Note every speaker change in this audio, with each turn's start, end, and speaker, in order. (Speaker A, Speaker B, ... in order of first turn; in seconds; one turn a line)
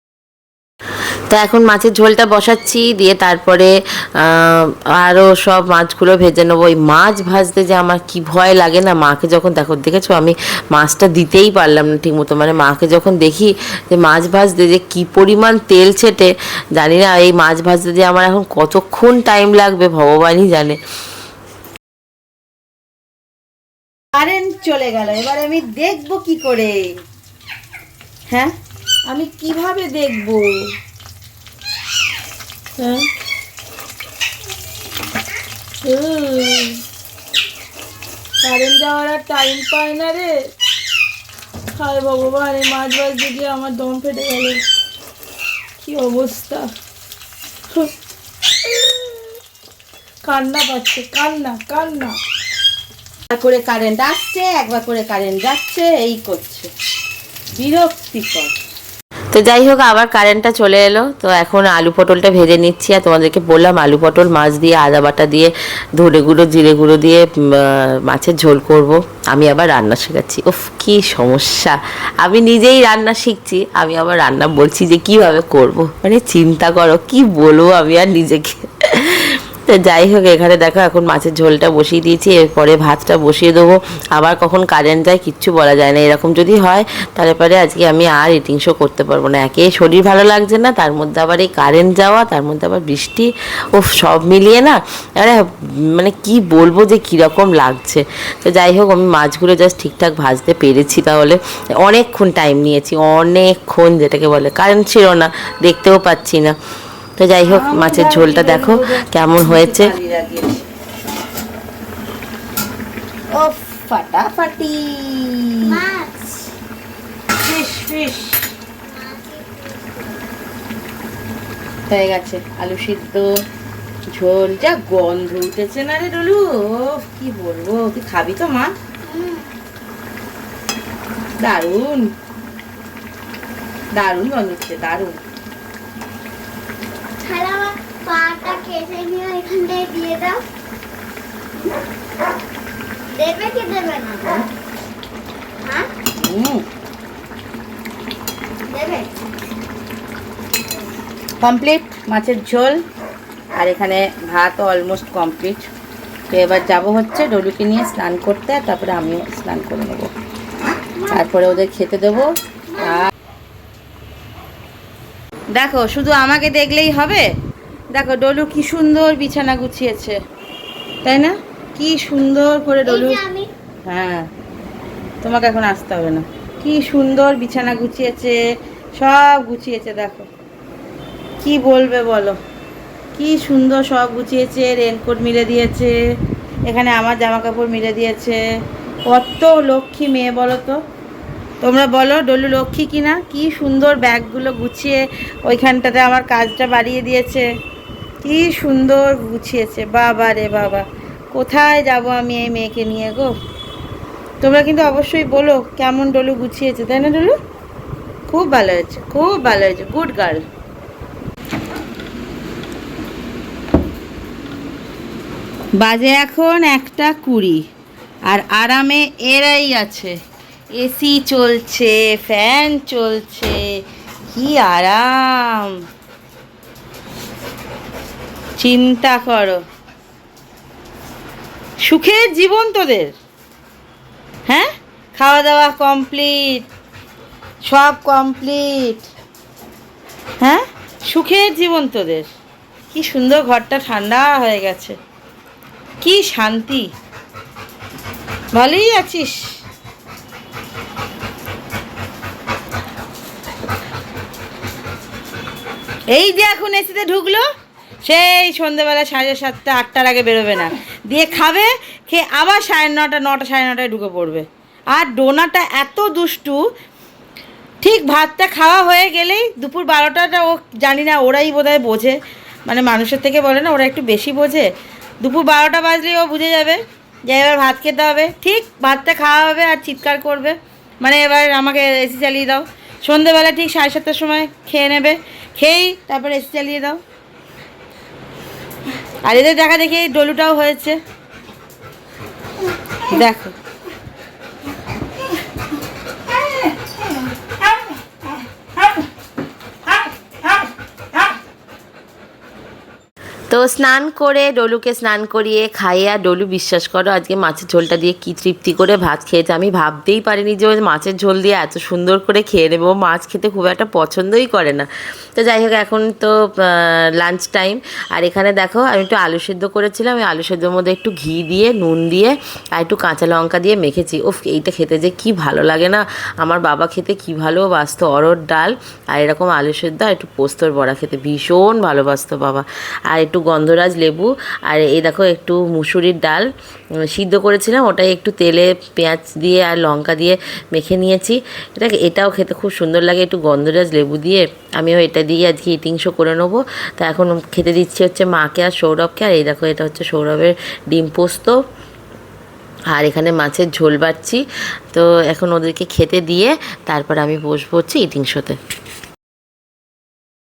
Speaker A: 1.3-20.8
Speaker B: 24.2-26.9
Speaker B: 29.1-30.7
Speaker B: 32.8-33.0
Speaker B: 35.8-36.8
Speaker B: 38.4-40.3
Speaker B: 41.8-44.6
Speaker B: 45.8-46.7
Speaker B: 50.2-52.1
Speaker B: 53.3-56.7
Speaker B: 57.6-58.5
Speaker A: 59.3-106.6
Speaker A: 107.2-109.9
Speaker B: 107.5-110.6
Speaker B: 113.3-115.8
Speaker C: 115.7-116.5
Speaker B: 117.4-118.5
Speaker C: 118.8-120.2
Speaker B: 121.9-123.3
Speaker B: 124.1-128.7
Speaker C: 129.1-129.5
Speaker B: 131.4-132.0
Speaker B: 134.0-135.1
Speaker C: 137.2-140.4
Speaker C: 143.1-144.5
Speaker C: 145.6-145.9
Speaker B: 146.2-146.6
Speaker C: 148.7-149.1
Speaker B: 151.4-152.8
Speaker B: 153.6-155.7
Speaker B: 156.3-160.1
Speaker B: 161.1-163.1
Speaker C: 162.7-163.1
Speaker B: 165.6-167.2
Speaker B: 167.9-170.2
Speaker B: 171.0-173.2
Speaker C: 172.8-173.5
Speaker B: 173.9-174.3
Speaker B: 175.2-178.4
Speaker B: 179.0-180.3
Speaker B: 181.4-182.4
Speaker B: 183.2-185.9
Speaker B: 186.7-188.4
Speaker B: 189.1-190.8
Speaker B: 191.6-197.5
Speaker B: 198.2-203.3
Speaker B: 204.4-207.3
Speaker B: 208.3-210.4
Speaker B: 215.8-217.6
Speaker B: 218.3-220.1
Speaker B: 220.8-223.6
Speaker B: 224.3-225.7
Speaker B: 228.6-229.6
Speaker B: 231.9-233.1
Speaker B: 235.2-236.7
Speaker B: 237.7-239.1
Speaker B: 240.4-242.3
Speaker B: 242.9-244.9
Speaker B: 246.0-246.8
Speaker B: 248.5-249.4
Speaker B: 256.1-257.4
Speaker B: 258.1-266.6
Speaker B: 267.8-272.2
Speaker B: 272.7-274.6
Speaker B: 275.2-287.0
Speaker B: 289.2-291.0
Speaker B: 293.1-293.5
Speaker A: 303.5-336.5
Speaker A: 337.1-351.6
Speaker A: 352.9-354.4
Speaker A: 354.9-358.6